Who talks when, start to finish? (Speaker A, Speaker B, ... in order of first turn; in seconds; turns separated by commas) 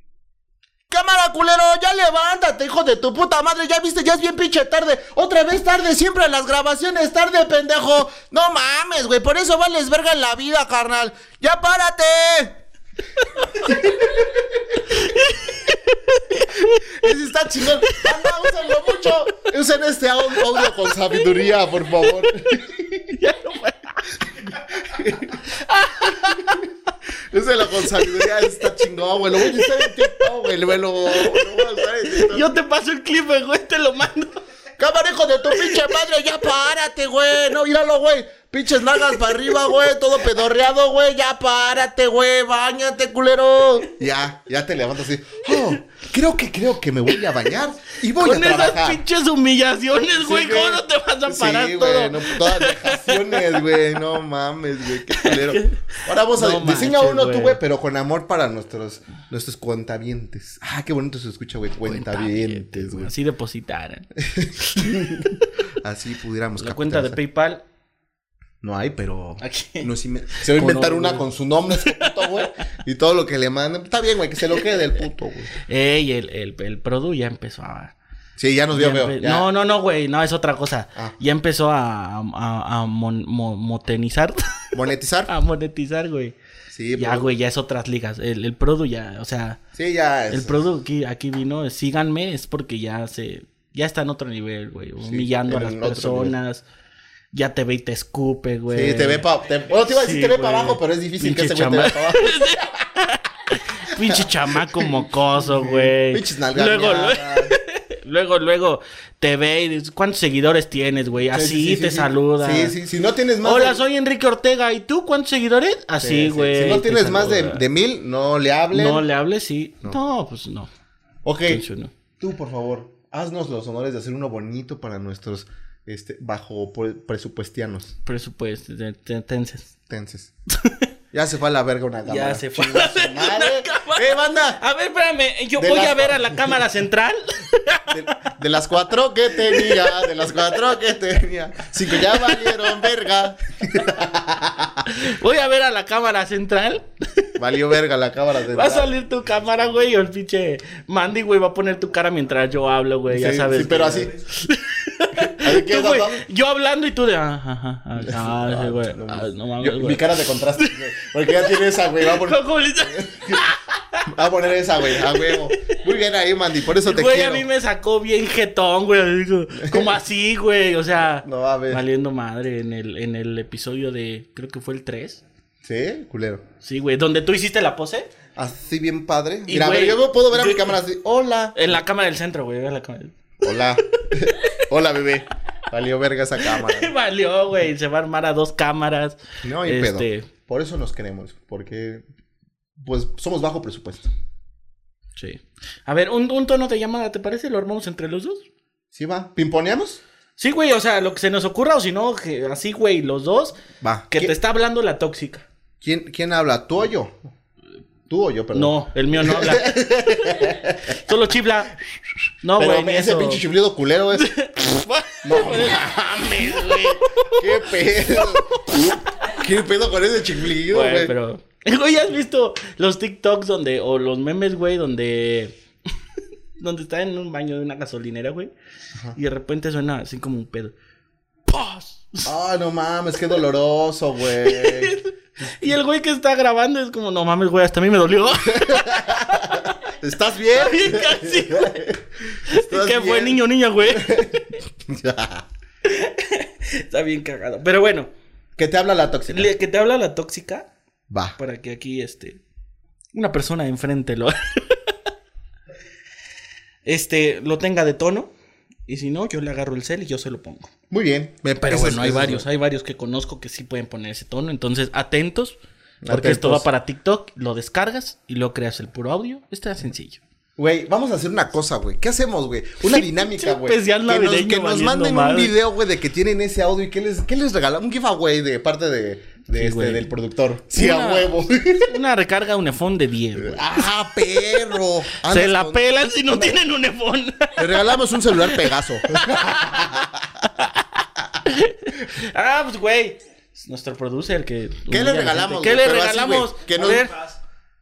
Speaker A: 0.9-12.6, Speaker B: 13.2-14.1, Speaker A: 13.6-14.2, Speaker B: 14.8-16.9, Speaker A: 16.8-23.1, Speaker B: 20.5-20.9, Speaker B: 23.1-24.2, Speaker A: 24.8-25.3, Speaker B: 25.0-26.7, Speaker A: 27.3-32.5, Speaker B: 28.0-28.3, Speaker B: 29.4-30.2, Speaker B: 31.1-34.4, Speaker A: 34.8-49.0, Speaker B: 48.1-53.6, Speaker A: 50.1-63.1, Speaker B: 55.1-57.6, Speaker B: 61.8-64.1, Speaker A: 64.2-67.2, Speaker B: 64.6-65.1, Speaker B: 66.6-67.6, Speaker A: 68.6-75.5, Speaker B: 69.4-71.3, Speaker B: 71.8-72.4, Speaker B: 75.7-77.9, Speaker A: 78.4-79.5, Speaker B: 78.7-84.4, Speaker A: 84.7-85.3, Speaker B: 85.3-86.3, Speaker A: 86.7-87.3, Speaker B: 87.0-89.6, Speaker A: 89.7-90.6, Speaker B: 90.3-96.6, Speaker A: 95.0-96.3, Speaker B: 97.3-112.7, Speaker A: 98.7-102.5, Speaker A: 104.0-107.5, Speaker A: 111.3-113.8, Speaker B: 113.4-117.7, Speaker A: 116.0-119.0, Speaker B: 118.7-120.7, Speaker A: 121.2-121.6, Speaker B: 121.5-121.9, Speaker A: 122.2-127.9, Speaker B: 128.0-129.7, Speaker A: 129.9-130.3, Speaker B: 130.6-130.8, Speaker A: 131.1-134.6, Speaker B: 132.1-138.3, Speaker A: 135.6-136.6, Speaker A: 137.9-144.9, Speaker B: 139.3-140.1, Speaker B: 141.9-142.9, Speaker B: 144.8-147.3, Speaker A: 147.4-148.9, Speaker B: 148.5-160.8, Speaker A: 153.1-154.1, Speaker A: 155.2-156.2, Speaker A: 158.0-163.4, Speaker B: 161.4-164.1, Speaker A: 164.1-167.4, Speaker B: 164.9-165.7, Speaker B: 166.8-175.2, Speaker A: 169.6-169.9, Speaker A: 171.2-171.8, Speaker A: 175.6-176.4, Speaker B: 176.6-178.1, Speaker A: 178.3-181.7, Speaker B: 179.5-180.8, Speaker B: 181.5-183.1, Speaker A: 183.4-186.9, Speaker B: 184.0-184.5, Speaker B: 186.4-190.3, Speaker A: 189.4-192.0, Speaker A: 192.8-194.1, Speaker B: 195.2-198.4, Speaker A: 198.9-200.0, Speaker B: 200.4-203.6, Speaker A: 203.8-204.3, Speaker B: 204.1-205.4, Speaker A: 205.8-207.2, Speaker A: 208.1-210.9, Speaker B: 208.5-211.8, Speaker B: 212.4-213.4, Speaker A: 212.5-214.3, Speaker B: 214.1-218.6, Speaker A: 215.2-221.1, Speaker B: 220.6-225.5, Speaker B: 226.6-228.5, Speaker B: 229.1-230.7, Speaker B: 231.5-232.3, Speaker A: 232.2-234.9, Speaker B: 234.4-239.9, Speaker A: 238.4-245.4, Speaker B: 240.5-241.8, Speaker B: 242.4-244.6, Speaker B: 245.8-248.1, Speaker A: 248.6-249.5, Speaker B: 249.3-250.7, Speaker A: 251.1-251.4, Speaker B: 251.4-252.4, Speaker B: 253.1-254.9, Speaker B: 256.8-258.3, Speaker B: 258.9-260.7, Speaker A: 260.9-262.4, Speaker B: 261.6-270.2, Speaker A: 266.0-266.6, Speaker A: 270.6-282.0, Speaker B: 272.8-275.5, Speaker B: 279.5-280.1, Speaker B: 280.7-283.8, Speaker A: 283.3-286.6, Speaker B: 285.2-297.2, Speaker A: 287.6-290.2, Speaker A: 294.9-297.1